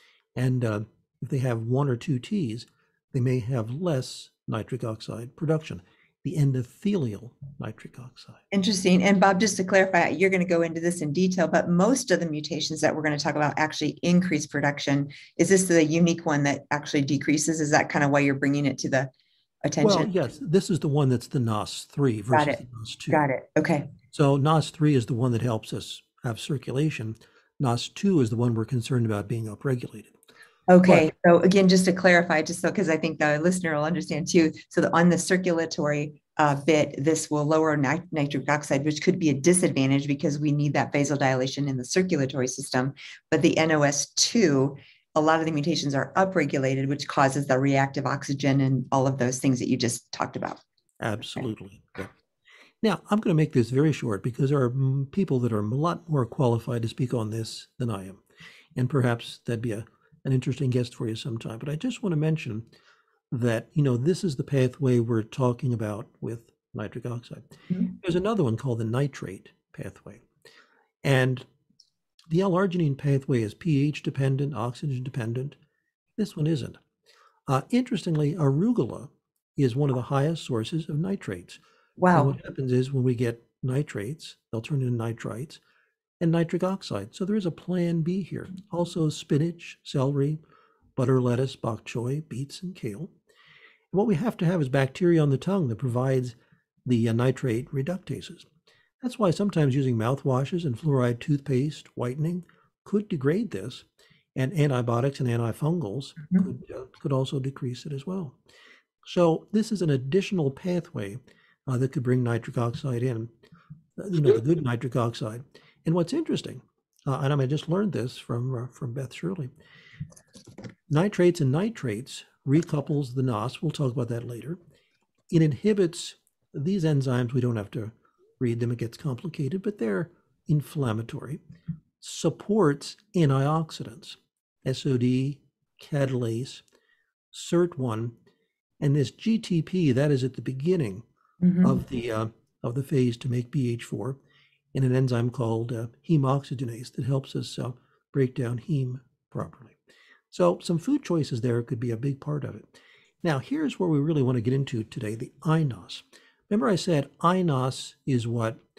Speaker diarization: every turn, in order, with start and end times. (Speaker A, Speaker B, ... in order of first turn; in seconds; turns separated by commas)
Speaker A: 0.4-8.4, Speaker B: 8.5-19.1, Speaker B: 19.6-20.1, Speaker A: 19.8-23.2, Speaker B: 22.3-23.9, Speaker A: 24.1-30.1, Speaker B: 30.7-50.6, Speaker A: 30.8-31.1, Speaker A: 51.0-52.1, Speaker A: 52.8-58.2, Speaker A: 58.8-62.7, Speaker A: 63.3-70.3, Speaker A: 71.0-71.5, Speaker A: 72.3-75.6, Speaker A: 76.2-76.8, Speaker A: 77.5-85.6, Speaker B: 82.0-82.4, Speaker A: 86.2-90.4, Speaker A: 91.0-93.1, Speaker A: 93.9-98.5, Speaker A: 99.0-108.4, Speaker A: 109.0-113.3, Speaker A: 114.0-119.5, Speaker A: 120.9-124.6, Speaker A: 125.3-131.4, Speaker A: 132.0-136.6, Speaker A: 137.3-138.2, Speaker A: 138.8-141.1, Speaker B: 141.4-141.8, Speaker A: 141.6-144.2, Speaker A: 144.7-149.8, Speaker A: 150.3-158.6